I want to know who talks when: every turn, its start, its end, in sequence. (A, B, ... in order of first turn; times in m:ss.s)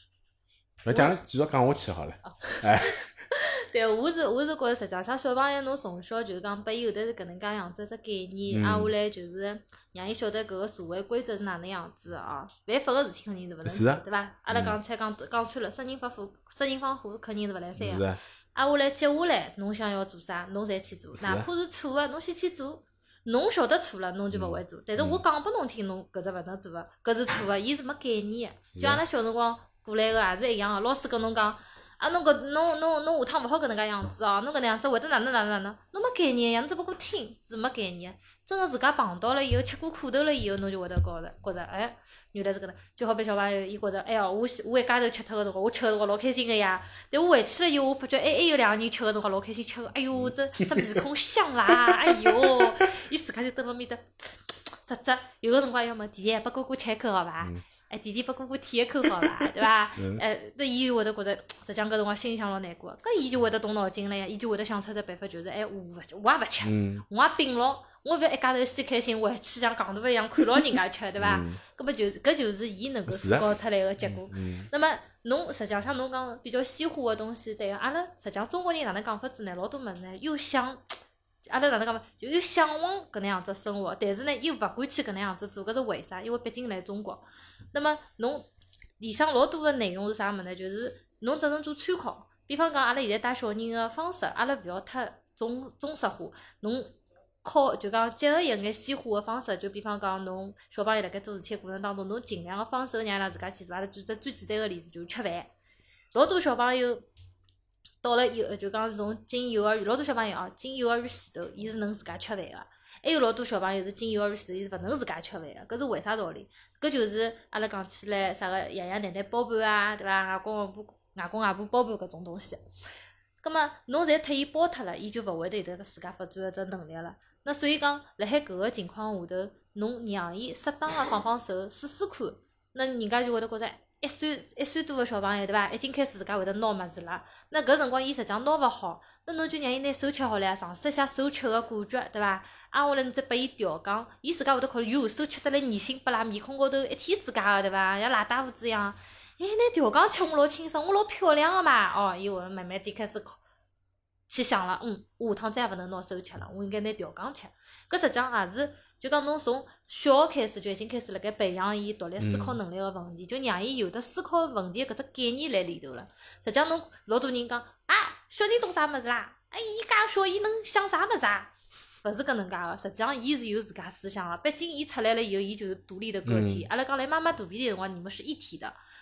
0:00.8-0:03.0 A
0:00.9-0:01.2 B
0:02.2-1:28.5 B
0:08.5-0:08.9 A
0:13.6-0:14.8 A
0:17.8-0:18.2 A
0:21.2-0:21.5 A
0:24.3-0:25.2 A
0:28.8-0:29.0 A
0:50.1-0:51.0 A
0:51.8-0:52.7 A
0:59.2-1:00.2 A
1:06.6-1:07.0 A
1:11.2-1:11.6 A
1:13.1-1:13.5 A
1:14.0-1:14.7 A
1:29.0-1:45.5 B
1:46.1-1:47.0 B
1:48.0-2:02.6 B
2:03.4-2:33.4 B
2:34.3-2:51.5 B
2:42.2-2:42.6 A
2:52.0-2:58.7 B
2:56.2-2:56.7 A